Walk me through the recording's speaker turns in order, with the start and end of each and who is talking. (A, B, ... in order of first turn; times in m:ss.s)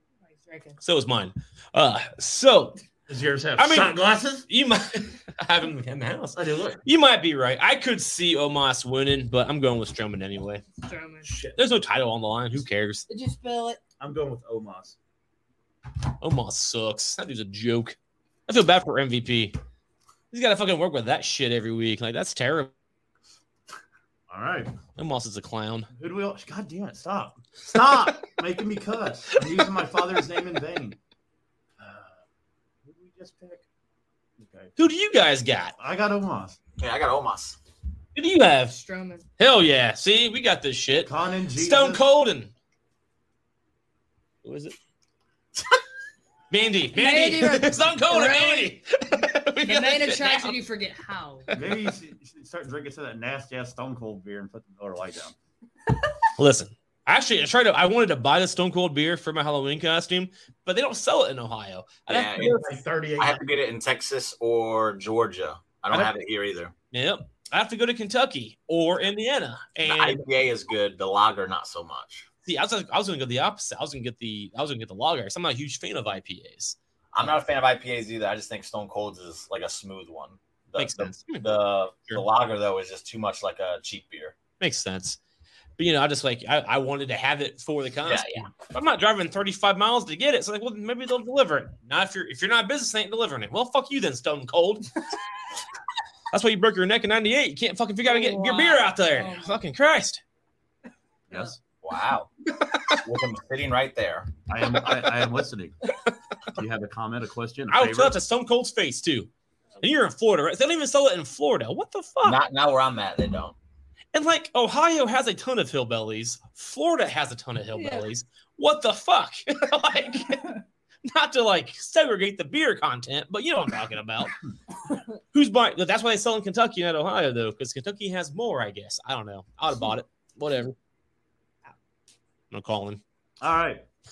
0:00.3-0:00.8 A
0:00.8-0:02.8 B
0:03.1-0:04.4 C
0:03.6-0:10.6 B
0:06.4-0:06.8 C
0:10.8-0:11.3 A
0:11.2-0:11.6 C
0:11.5-0:13.0 B
0:13.1-0:13.8 A
0:14.0-0:15.0 C
0:16.2-0:19.5 B
0:20.3-0:22.7 B
0:24.3-0:24.7 C
0:25.0-0:25.9 B
0:25.9-0:31.0 C
0:31.8-0:32.2 C
0:32.8-0:33.6 C
0:34.4-0:34.7 C
0:34.8-0:35.7 B
0:35.8-0:36.6 C
0:36.8-0:37.6 D
0:38.1-0:38.8 B
0:38.7-0:39.2 A
0:39.4-0:42.5 B
0:41.0-0:42.0 C
0:44.4-0:44.7 B
0:46.5-0:50.5 B
0:46.9-0:48.8 A
0:49.6-0:51.5 A
0:51.5-0:51.9 B
0:51.5-0:55.3 C
0:56.4-1:02.6 B
1:02.1-1:02.6 D
1:02.4-1:03.4 C
1:03.2-1:06.7 D
1:06.9-1:10.2 B
1:09.8-1:12.3 D
1:12.4-1:16.8 B
1:17.1-1:24.4 D
1:20.8-1:21.5 B
1:24.6-1:25.2 B
1:25.8-1:35.0 B
1:28.0-1:28.5 D
1:36.3-1:40.2 B
1:38.0-1:39.5 A
1:41.3-1:41.6 C
1:41.8-1:42.3 D
1:42.9-1:44.3 D
1:44.5-1:45.8 C
1:46.5-1:48.2 C
1:47.7-1:52.4 B
1:52.2-1:53.6 D
1:54.1-2:04.3 B
1:57.7-1:58.1 A
2:05.3-2:10.7 B
2:12.5-2:13.0 B
2:13.4-2:13.8 C